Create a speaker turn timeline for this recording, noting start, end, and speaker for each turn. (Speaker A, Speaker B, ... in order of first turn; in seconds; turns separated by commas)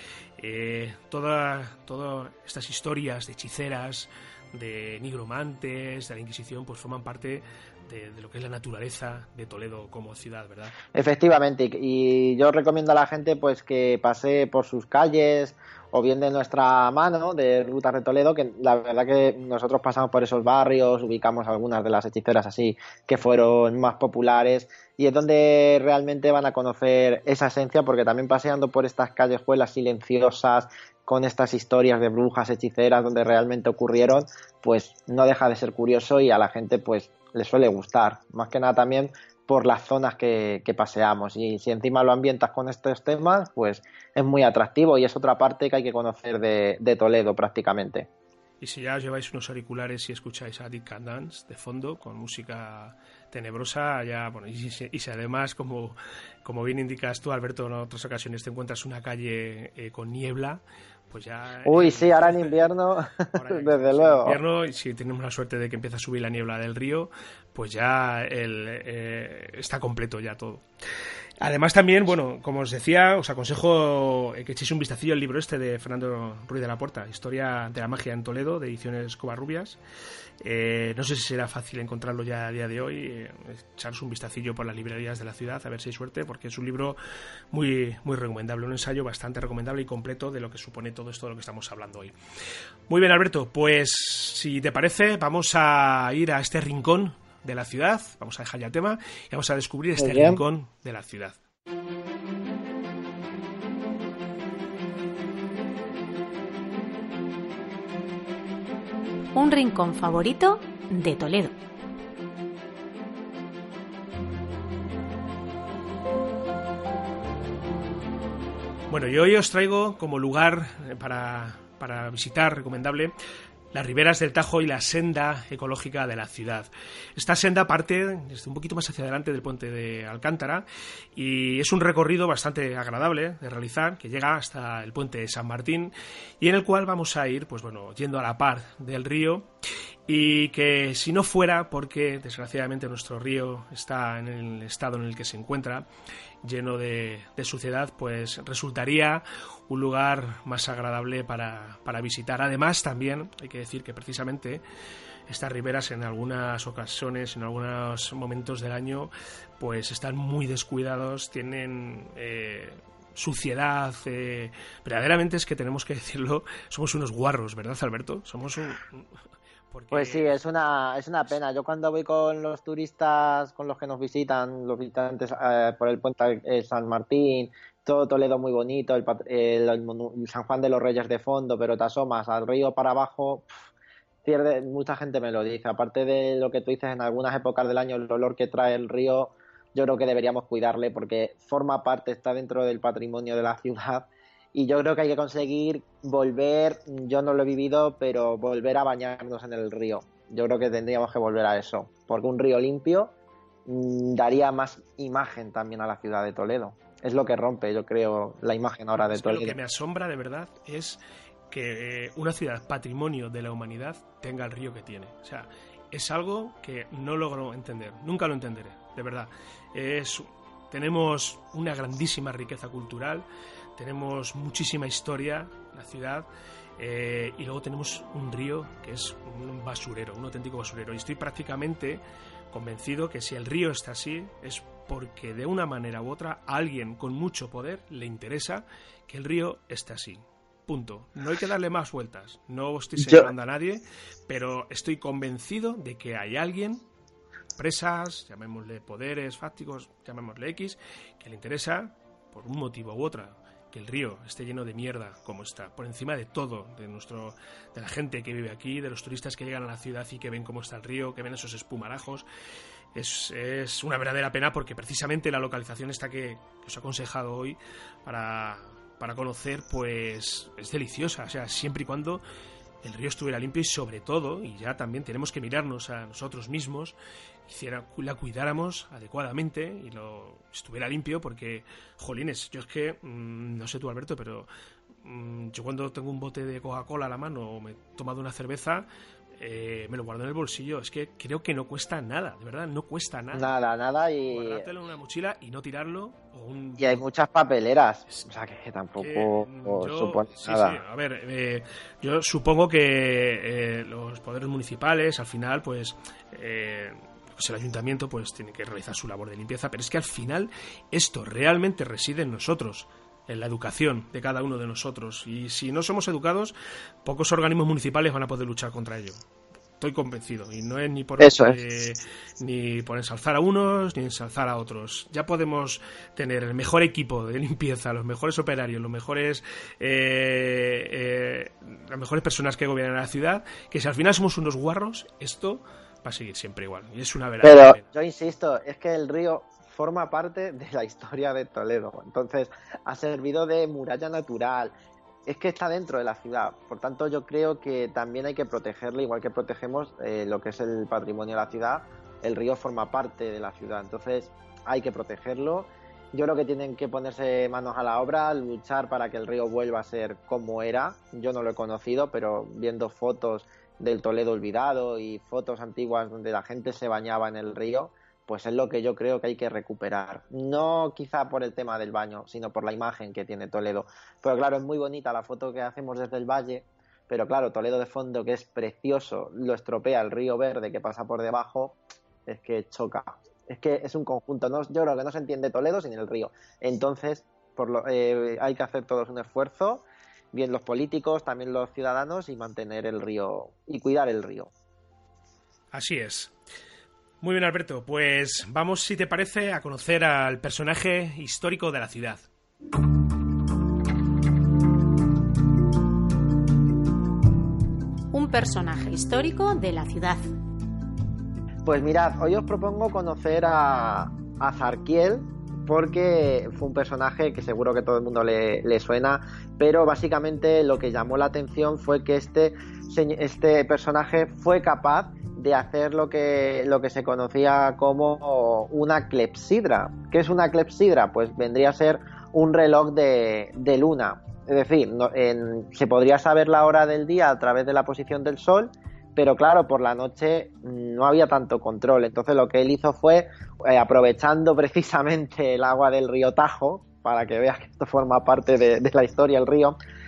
Speaker A: 0.4-10.8, Speaker B: 10.9-48.1, Speaker A: 48.6-62.6, Speaker B: 61.6-64.4, Speaker A: 63.3-70.6, Speaker A: 71.4-79.8, Speaker A: 80.4-87.0, Speaker A: 87.5-92.1, Speaker A: 92.9-101.4, Speaker B: 100.0-100.4, Speaker C: 109.3-111.5, Speaker A: 118.9-123.1, Speaker A: 123.7-139.5, Speaker A: 140.1-145.9, Speaker A: 146.4-154.6, Speaker A: 155.3-169.2, Speaker A: 169.7-170.4, Speaker B: 169.9-183.5, Speaker B: 184.2-203.1, Speaker B: 203.7-209.6, Speaker A: 209.1-223.2, Speaker A: 223.8-246.9, Speaker B: 243.0-243.3, Speaker A: 247.6-262.2, Speaker A: 262.9-272.2, Speaker A: 272.8-284.5, Speaker A: 285.0-293.5, Speaker B: 293.3-294.7, Speaker A: 294.3-297.0, Speaker B: 296.8-300.8, Speaker A: 299.0-316.5, Speaker A: 317.0-319.1, Speaker A: 319.8-337.9, Speaker B: 321.2-321.6, Speaker B: 337.4-344.7, Speaker B: 345.2-394.5, Speaker A: 395.7-396.4, Speaker A: 397.2-402.2, Speaker C: 408.1-410.3, Speaker B: 411.6-449.8